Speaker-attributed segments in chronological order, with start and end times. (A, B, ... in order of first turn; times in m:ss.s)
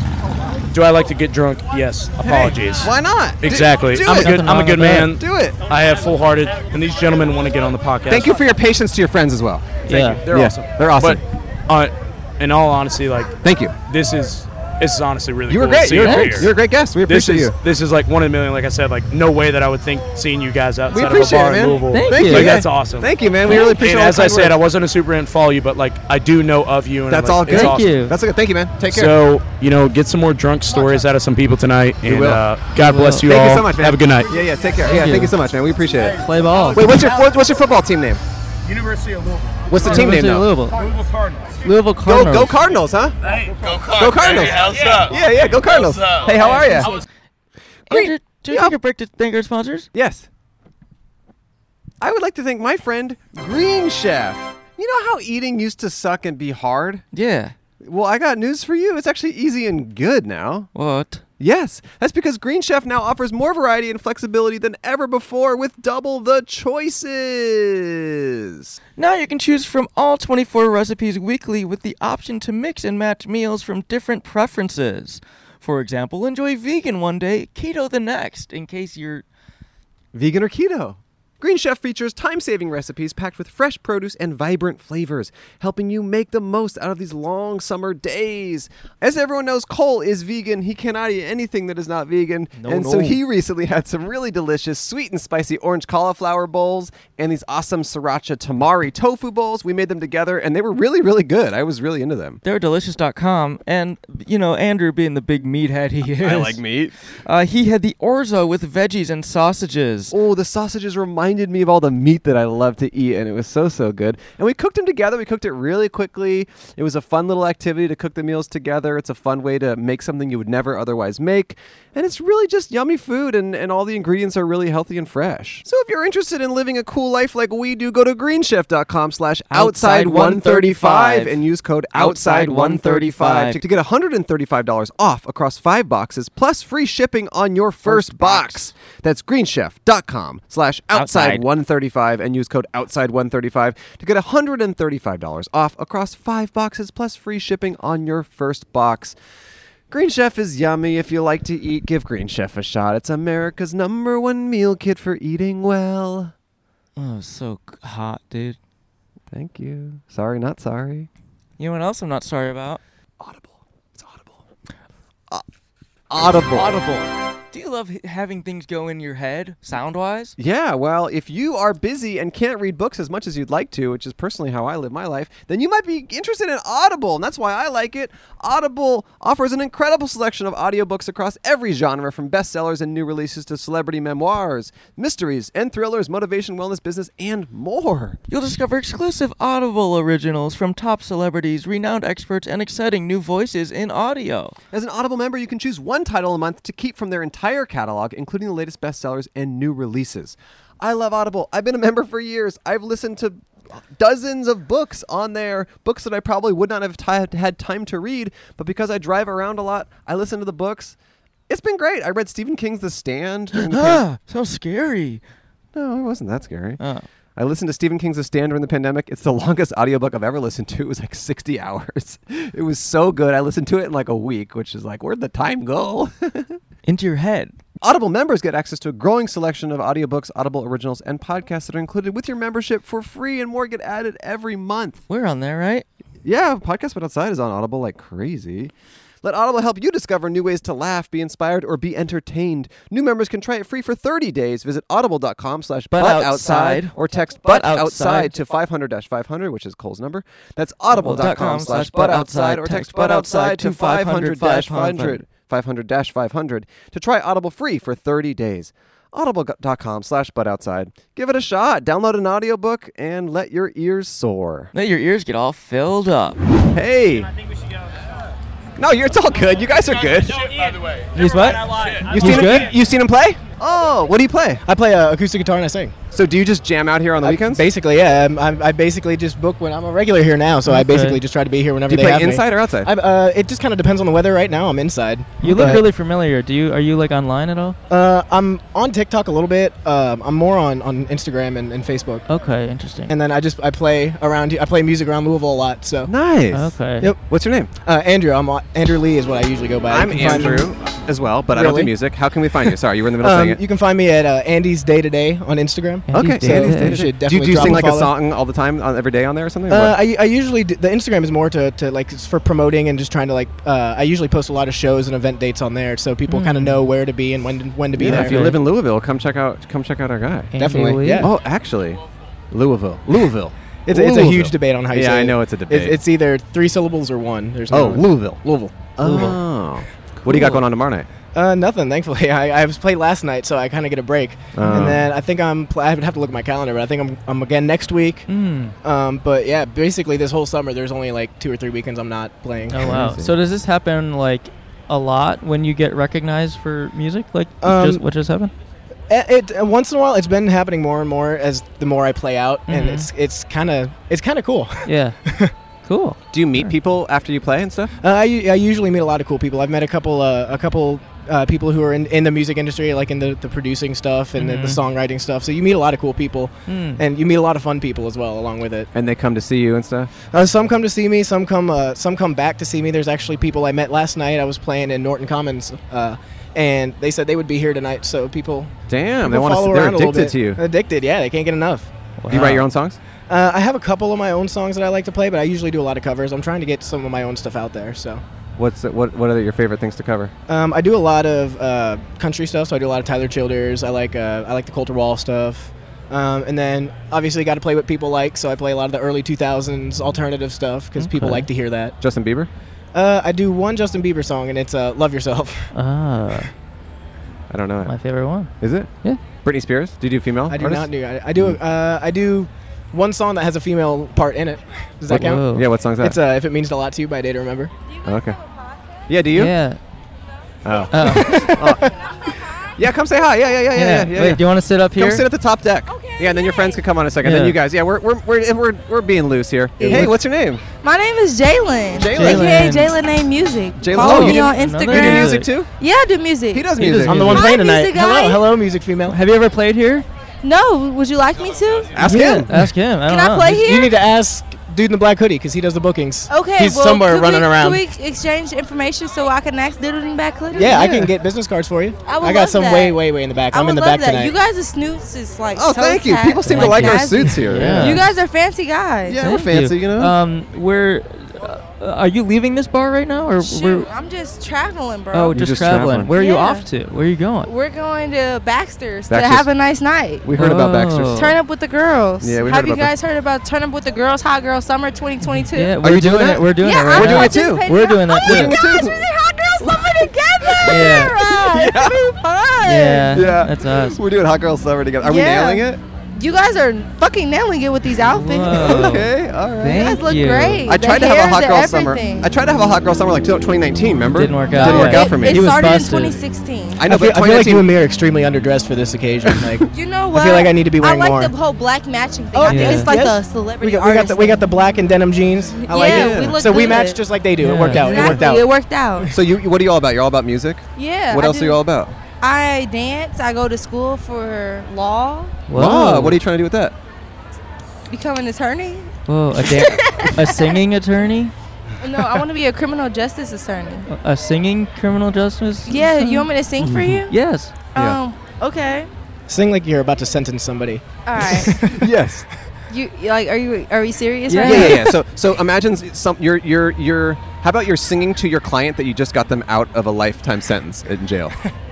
0:00.7-0:08.4 A
0:02.2-0:04.4 B
0:04.1-0:05.1 C
0:05.0-0:05.6 B
0:08.1-0:11.2 B
0:09.8-0:10.2 C
0:09.8-0:28.0 A
0:13.4-0:13.7 B
0:15.5-0:17.5 B
0:16.0-0:16.5 C
0:20.9-0:24.6 B
0:21.9-0:22.5 C
0:27.1-0:29.2 B
0:27.5-0:28.1 C
0:28.9-0:34.4 A
0:32.0-0:32.4 B
0:32.8-0:33.3 C
0:33.2-0:38.2 B
0:34.8-0:35.3 C
0:36.2-0:36.8 C
0:39.7-0:40.6 B
0:39.8-0:40.8 C
0:41.6-0:42.5 C
0:42.0-0:43.2 B
0:43.5-0:45.1 D
0:43.9-0:47.0 B
0:46.0-0:46.3 D
0:46.5-0:47.0 C
0:47.9-0:48.7 B
0:47.9-0:49.9 C
0:49.9-0:50.2 B
0:52.0-0:57.0 B
0:57.1-0:57.5 C
0:57.8-1:00.7 B
1:00.7-1:01.2 C
1:01.4-1:08.8 B
1:09.0-1:19.2 C
1:20.1-1:42.4 B
1:32.6-1:33.2 C
1:42.4-1:46.6 C
1:46.0-1:46.9 B
1:47.2-1:50.1 C
1:50.1-2:29.2 B
2:09.5-2:11.4 C
2:11.9-2:13.6 C
2:17.8-2:18.7 C
2:20.9-2:21.4 C
2:29.9-2:36.3 B
2:37.0-2:38.6 C
2:39.3-2:41.1 B
2:41.6-2:42.8 C
2:43.2-2:44.4 B
2:46.1-2:46.8 B
2:46.5-2:50.3 C
2:50.4-3:08.2 B
3:08.3-3:14.6 C
3:14.7-3:30.9 B
3:31.5-3:34.0 B
3:33.5-3:35.2 C
3:35.7-3:36.8 B
3:36.8-3:37.1 C
3:37.4-3:46.6 B
3:46.8-3:47.6 C
3:47.8-3:55.0 B
3:55.1-3:55.9 C
3:56.2-3:58.7 B
3:59.2-4:24.7 B
4:05.9-4:08.3 C
4:10.9-4:15.2 C
4:24.7-4:26.4 C
4:26.7-4:27.3 B
4:28.8-4:30.5 B
4:31.1-4:32.7 C
4:31.9-4:34.6 B
4:34.6-4:36.0 E
4:36.1-4:37.7 B
4:37.2-4:45.8 E
4:40.6-4:41.2 C
4:41.8-4:42.9 B
4:45.4-4:47.8 C
4:45.5-4:45.8 B
4:47.9-4:52.2 E
4:52.3-4:53.1 C
4:53.1-4:56.1 E
4:56.0-4:57.7 B
4:56.5-4:57.1 C
4:56.9-4:57.2 E
4:57.8-5:00.7 E
4:59.9-5:03.6 B
5:01.5-5:02.0 E
5:02.6-5:08.1 E
5:06.1-5:07.1 C
5:06.1-5:10.0 B
5:09.7-5:18.5 E
5:16.3-5:16.8 C
5:17.9-5:26.0 B
5:18.1-5:18.5 C
5:20.5-5:21.3 C
5:20.5-5:21.3 E
5:23.8-5:28.7 E
5:27.7-5:31.1 B
5:29.0-5:29.4 C
5:30.3-5:30.6 C
5:31.3-5:38.3 E
5:34.5-5:35.1 B
5:34.6-5:35.0 C
5:38.3-5:38.7 C
5:38.8-5:43.1 E
5:42.7-5:48.5 C
5:42.8-5:43.3 B
5:47.6-5:48.0 E
5:49.1-5:55.5 E
5:52.7-5:53.1 C
5:54.8-5:55.2 C
5:55.8-5:56.7 C
5:56.3-5:57.9 B
5:58.0-6:08.9 E
6:04.4-6:04.8 C
6:06.7-6:07.0 C
6:08.9-6:10.1 B
6:10.3-6:21.9 E
6:18.9-6:20.6 B
6:22.2-6:22.6 C
6:22.3-6:23.0 B
6:23.3-6:28.2 E
6:28.6-6:30.3 B
6:30.5-6:42.0 E
6:41.0-6:41.5 C
6:42.0-6:42.5 B
6:42.9-6:45.7 E
6:45.7-6:46.5 C
6:47.5-6:48.0 B
6:47.8-6:48.5 C
6:48.6-6:51.6 B
6:50.5-6:57.7 E
6:55.1-6:56.2 B
6:55.1-6:55.6 C
6:58.0-6:58.4 B
6:59.1-6:59.5 B
6:59.3-6:59.8 C
7:00.6-7:01.9 B
7:00.9-7:01.4 C
7:01.0-7:01.9 E
7:02.8-7:10.6 B
7:03.7-7:05.2 C
7:07.2-7:07.6 C
7:09.8-7:10.2 E
7:10.8-7:16.7 F
7:12.0-7:12.6 B
7:12.1-7:12.9 C
7:13.8-7:15.7 B
7:13.9-7:15.5 C
7:16.5-7:17.4 B
7:16.8-7:17.5 C
7:17.0-7:19.2 E
7:17.3-7:18.4 F
7:19.1-7:20.0 C
7:20.4-7:22.0 F
7:21.9-7:22.6 B
7:22.0-7:23.6 C
7:22.1-7:22.4 E
7:23.0-7:23.9 F
7:23.6-7:27.8 E
7:26.3-7:31.1 F
7:30.5-7:34.3 E
7:32.0-7:39.2 F
7:35.5-7:38.1 B
7:36.4-7:38.0 C
7:39.0-7:40.1 B
7:39.2-7:43.9 C
7:43.4-7:45.4 F
7:45.1-7:47.5 C
7:45.3-7:46.1 B
7:46.1-7:46.6 F
7:47.4-7:50.2 F
7:49.1-7:49.5 B
7:50.2-7:51.2 B
7:50.3-7:51.3 C
7:51.1-7:55.8 F
7:52.2-7:52.9 B
7:55.2-7:58.5 C
7:55.8-7:59.1 B
7:56.6-8:03.3 F
7:59.6-8:02.1 B
8:00.6-8:01.1 C
8:02.6-8:04.0 C
8:03.1-8:05.8 B
8:05.0-8:08.8 F
8:08.1-8:10.6 C
8:08.5-8:10.0 B
8:09.7-8:12.3 F
8:10.7-8:15.5 B
8:14.1-8:16.2 C
8:14.5-8:16.8 F
8:16.8-8:17.7 B
8:16.8-8:21.3 E
8:19.7-8:24.4 F
8:22.3-8:28.5 E
8:22.5-8:22.9 C
8:25.6-8:27.0 F
8:25.8-8:26.6 B
8:27.4-8:28.1 C
8:27.7-8:29.1 F
8:29.1-8:31.9 B
8:30.8-8:31.6 F
8:32.2-8:35.5 F
8:35.5-8:36.2 C
8:35.5-8:36.7 B
8:37.9-8:38.9 F
8:39.1-8:41.3 C
8:39.5-8:40.5 F
8:41.8-8:43.9 F
8:43.9-8:46.3 C
8:45.6-8:47.1 F
8:46.6-8:47.0 B
8:47.1-8:47.6 C
8:47.7-8:48.9 F
8:49.3-8:51.8 E
8:51.0-8:51.5 F
8:51.8-8:52.2 B
8:52.7-8:54.9 F
8:54.3-8:54.8 C
8:54.4-9:01.3 B